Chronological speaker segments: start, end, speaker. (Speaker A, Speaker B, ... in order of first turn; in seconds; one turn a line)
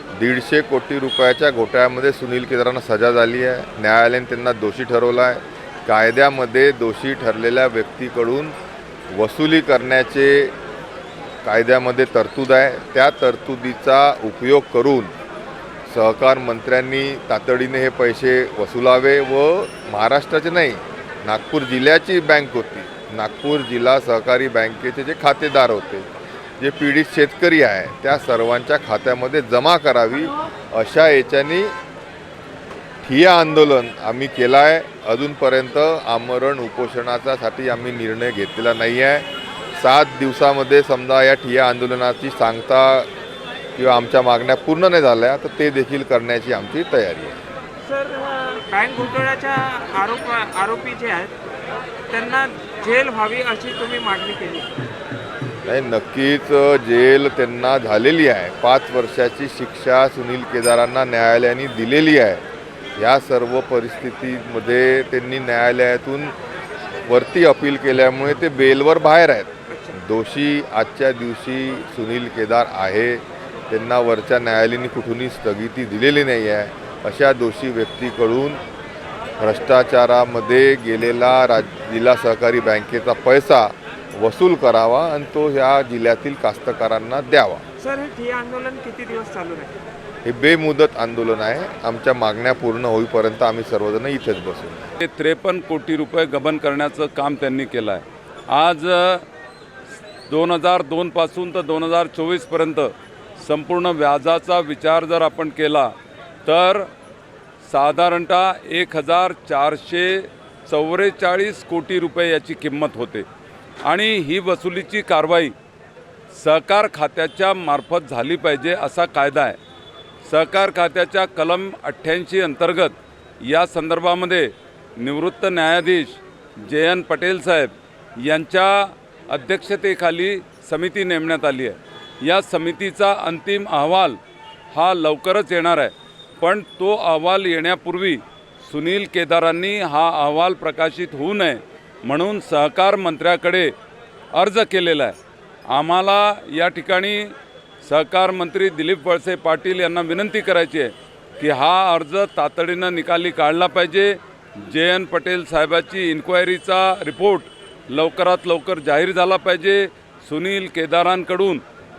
Speaker A: 0.1-8.6
Speaker A: 9.1-10.6
Speaker A: 11.4-15.1
Speaker A: 15.9-26.1
Speaker A: 26.6-31.7
Speaker A: 33.0-43.1
Speaker A: 43.8-47.4
Speaker B: 47.8-51.4
Speaker B: 52.1-54.7
Speaker A: 55.7-62.4
Speaker A: 63.0-66.3
Speaker A: 67.1-78.6
Speaker B: 69.7-70.0
Speaker A: 79.4-87.6
Speaker B: 87.8-89.8
Speaker A: 90.2-94.8
Speaker C: 95.0-99.3
Speaker C: 100.3-105.9
Speaker C: 106.5-106.9
Speaker C: 107.6-113.3
Speaker C: 113.8-115.5
Speaker C: 116.3-119.6
Speaker C: 120.2-134.2
Speaker C: 134.7-143.7
Speaker C: 144.3-145.2
Speaker C: 145.7-161.6